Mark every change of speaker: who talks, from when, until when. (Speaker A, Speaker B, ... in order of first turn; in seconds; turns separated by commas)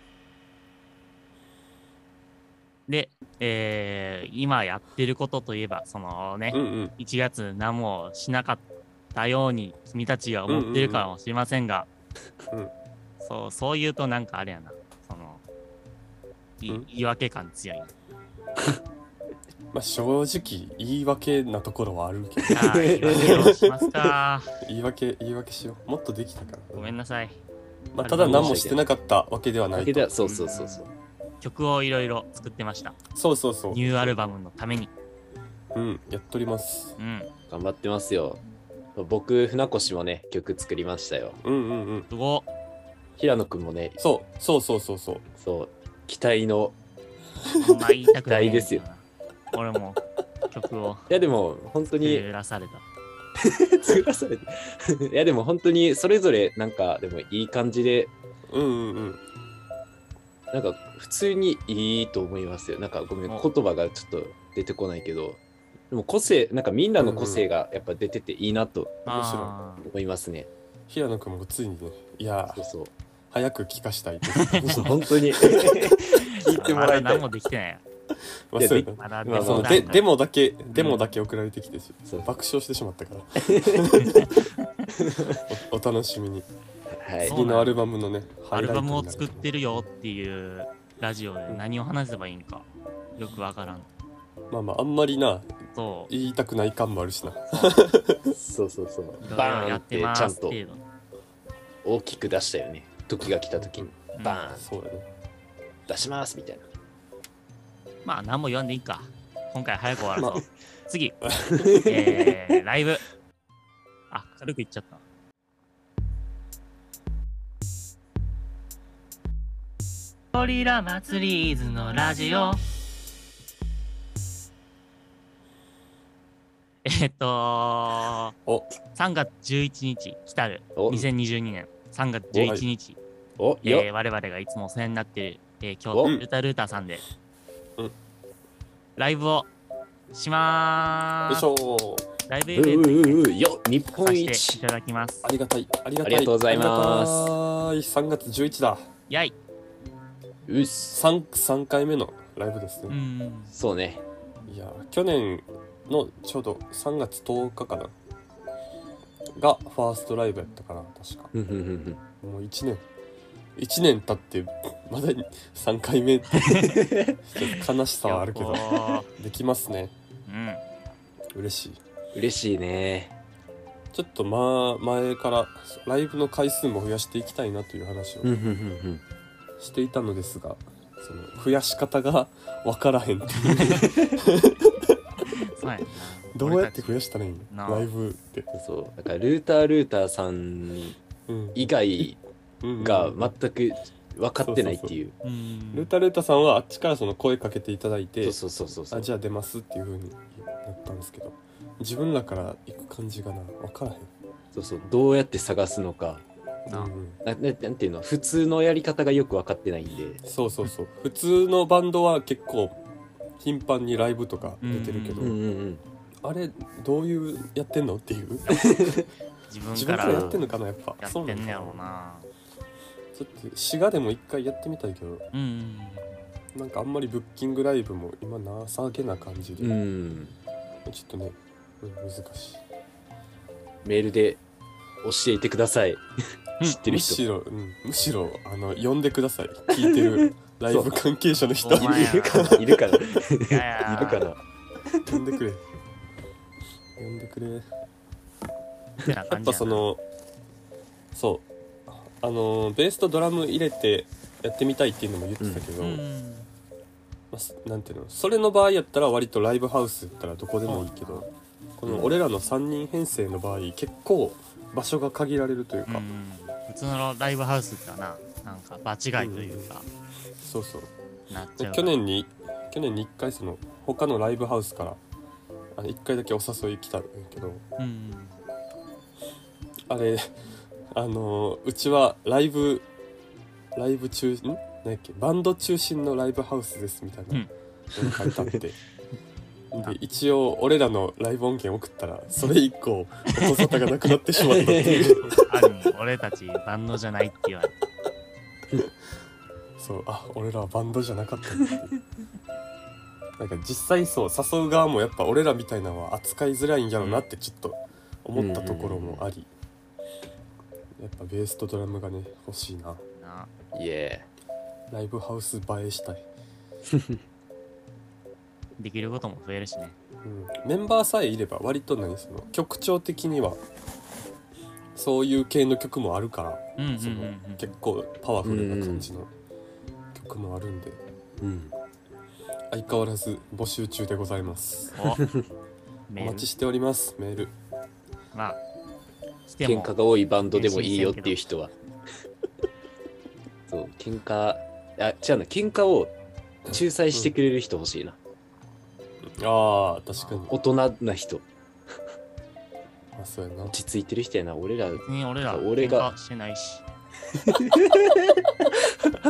Speaker A: 2.9-11.9, Speaker B: 6.5-7.0, Speaker B: 10.5-11.1, Speaker A: 13.2-15.4, Speaker A: 16.6-17.9, Speaker B: 19.7-23.8, Speaker C: 22.5-23.5, Speaker A: 22.5-24.5, Speaker B: 24.6-26.9, Speaker A: 26.8-27.4, Speaker B: 27.9-30.2, Speaker A: 28.0-28.6, Speaker C: 28.2-28.9, Speaker C: 29.7-30.9, Speaker A: 30.2-30.9, Speaker A: 31.4-33.0, Speaker B: 33.1-34.2, Speaker A: 33.7-34.9, Speaker B: 35.7-37.0, Speaker A: 37.0-37.3, Speaker C: 37.5-38.4, Speaker C: 39.0-41.4, Speaker B: 41.4-42.1, Speaker A: 42.1-42.5, Speaker C: 43.2-44.0, Speaker B: 44.0-45.2, Speaker C: 45.4-46.8, Speaker A: 47.6-51.1, Speaker C: 48.3-48.9, Speaker C: 51.1-52.3, Speaker A: 52.0-52.8, Speaker C: 53.5-58.1, Speaker B: 58.5-59.2, Speaker C: 60.5-69.1, Speaker B: 67.0-67.5, Speaker A: 69.1-69.9, Speaker B: 69.1-69.5, Speaker C: 69.8-70.5, Speaker B: 70.9-72.7, Speaker C: 72.5-72.9, Speaker B: 73.3-76.8, Speaker A: 74.4-74.9, Speaker C: 74.6-77.3, Speaker A: 76.4-77.8, Speaker B: 78.5-84.3, Speaker C: 78.6-80.0, Speaker A: 79.0-80.1, Speaker A: 80.7-81.1, Speaker C: 82.1-82.3, Speaker C: 83.4-83.9, Speaker A: 84.0-84.9, Speaker C: 85.0-85.4, Speaker B: 85.5-86.5, Speaker C: 87.0-87.4, Speaker B: 87.2-89.8, Speaker A: 87.2-87.9, Speaker A: 88.5-93.9, Speaker B: 94.5-95.5, Speaker A: 95.8-96.1, Speaker B: 96.1-98.3, Speaker C: 98.3-100.6, Speaker A: 99.2-100.8, Speaker C: 101.8-104.7, Speaker B: 103.6-104.0, Speaker A: 104.2-104.4, Speaker B: 104.6-105.1, Speaker C: 105.9-106.7, Speaker A: 108.0-111.2, Speaker B: 110.2-110.4, Speaker C: 111.5-112.4, Speaker A: 111.9-113.0, Speaker A: 114.1-115.0, Speaker A: 120.3-122.6, Speaker A: 126.8-128.3, Speaker A: 128.9-133.0, Speaker C: 130.8-131.1, Speaker B: 132.3-132.7, Speaker C: 133.4-133.9, Speaker A: 133.6-137.0, Speaker A: 139.0-139.5, Speaker A: 140.1-141.5, Speaker B: 141.3-142.1, Speaker A: 142.3-143.3, Speaker C: 142.6-144.6, Speaker A: 144.0-145.3, Speaker B: 145.2-148.9, Speaker C: 146.0-147.3, Speaker A: 149.1-149.3, Speaker C: 150.5-151.0, Speaker B: 150.9-153.0, Speaker A: 152.9-153.5, Speaker C: 153.5-154.0, Speaker B: 154.5-157.9, Speaker B: 159.4-161.3, Speaker C: 161.3-162.0, Speaker B: 162.2-162.8, Speaker B: 163.6-166.6, Speaker C: 166.6-167.2, Speaker B: 167.2-169.9, Speaker A: 168.0-169.1, Speaker A: 170.3-170.6, Speaker B: 171.3-171.8, Speaker C: 172.1-173.2, Speaker B: 173.9-178.3, Speaker C: 178.2-179.0, Speaker B: 179.6-184.9, Speaker C: 183.8-184.1, Speaker A: 185.5-187.0, Speaker B: 186.3-188.5, Speaker A: 187.5-187.9, Speaker C: 188.5-191.0, Speaker B: 191.3-191.8, Speaker C: 191.5-192.2, Speaker B: 192.6-193.3, Speaker C: 192.8-195.1, Speaker B: 194.4-194.9, Speaker A: 195.2-195.9, Speaker B: 195.7-198.4, Speaker C: 198.2-199.1, Speaker B: 198.9-204.1, Speaker C: 204.5-206.2, Speaker B: 206.7-207.2, Speaker C: 207.2-210.2, Speaker B: 210.2-212.8, Speaker B: 213.4-215.4, Speaker A: 214.6-215.4, Speaker C: 215.2-215.8, Speaker B: 216.2-218.9, Speaker C: 218.5-219.0, Speaker A: 219.5-220.4, Speaker B: 219.7-221.8, Speaker C: 220.0-220.4, Speaker A: 221.0-222.3, Speaker B: 223.2-225.2, Speaker A: 225.3-226.2, Speaker B: 226.5-229.8, Speaker C: 229.6-230.4, Speaker B: 230.9-232.6, Speaker C: 233.8-234.4, Speaker C: 235.0-236.0, Speaker C: 236.6-237.2, Speaker B: 236.8-242.8, Speaker C: 239.8-241.0, Speaker A: 241.6-242.6, Speaker C: 241.7-244.4, Speaker A: 243.5-244.3, Speaker B: 245.1-245.6, Speaker C: 245.1-245.4, Speaker B: 247.0-247.7, Speaker A: 249.0-249.8, Speaker B: 249.4-250.0, Speaker B: 251.1-256.0, Speaker C: 255.4-255.7, Speaker A: 255.8-256.5, Speaker B: 257.3-266.1, Speaker A: 260.7-261.3, Speaker C: 261.9-262.2, Speaker A: 265.9-269.9, Speaker B: 269.2-269.7, Speaker B: 270.4-270.9, Speaker A: 271.3-272.0, Speaker B: 271.6-275.0, Speaker B: 275.8-277.6, Speaker A: 277.8-278.4, Speaker B: 279.9-280.3, Speaker B: 280.9-282.9, Speaker B: 283.8-288.8, Speaker C: 288.0-288.6, Speaker B: 289.7-295.4, Speaker C: 293.4-295.4, Speaker A: 295.5-297.8, Speaker B: 299.8-301.9, Speaker B: 303.4-309.5, Speaker A: 307.0-307.2, Speaker C: 308.4-309.3, Speaker B: 311.0-313.0, Speaker A: 313.2-313.5, Speaker C: 313.7-314.3, Speaker B: 314.9-316.3, Speaker A: 318.8-320.0, Speaker B: 320.2-323.6, Speaker B: 324.9-329.3, Speaker A: 326.8-327.7, Speaker C: 328.4-329.1, Speaker B: 330.1-331.0, Speaker C: 331.4-331.7, Speaker B: 332.7-335.0, Speaker A: 334.9-335.2, Speaker A: 336.1-336.4, Speaker B: 336.2-337.5, Speaker C: 336.2-336.5, Speaker A: 338.3-338.6, Speaker A: 339.5-339.9, Speaker C: 339.6-341.7, Speaker A: 340.5-341.4, Speaker C: 343.7-346.1, Speaker C: 346.7-348.2, Speaker B: 347.1-347.4, Speaker B: 349.4-350.6, Speaker A: 350.1-350.5, Speaker C: 350.5-351.5, Speaker B: 353.2-353.8, Speaker C: 353.7-356.1, Speaker A: 355.0-356.8, Speaker C: 357.5-358.1